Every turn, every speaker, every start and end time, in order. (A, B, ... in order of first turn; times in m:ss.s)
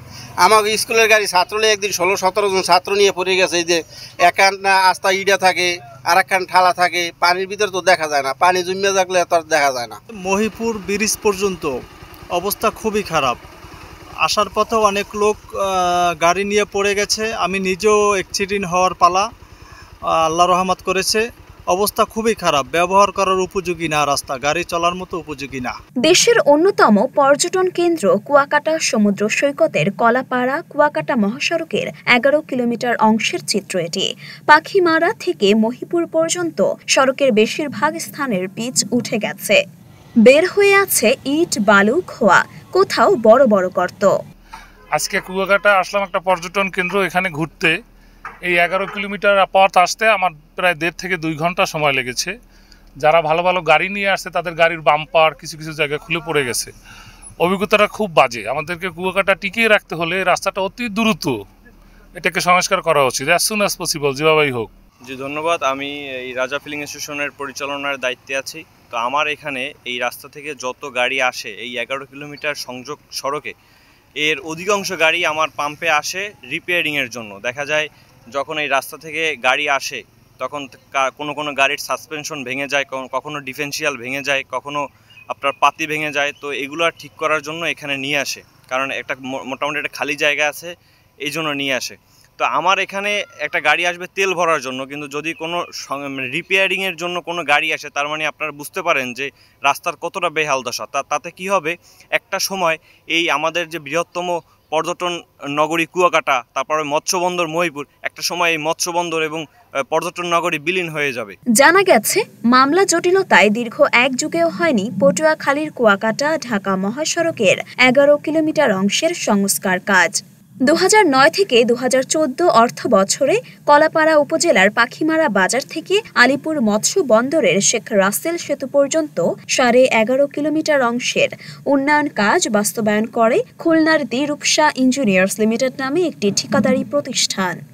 0:00.4-0:10.0 A
0:10.2-0:11.7 B
0:12.3-0:13.4 B
0:14.2-0:19.3 B
0:20.3-0:25.8 B
0:26.0-0:39.6 C
0:40.3-0:44.1 C
0:44.9-0:47.8 D
0:48.4-0:52.3 D
0:53.0-0:56.7 D
0:57.4-1:01.3 D
1:02.2-1:04.7 D
1:05.0-1:13.5 E
1:14.2-1:24.8 E
1:25.3-1:30.7 E
1:31.2-1:51.4 E
1:51.6-2:00.1 C
2:00.7-2:17.6 C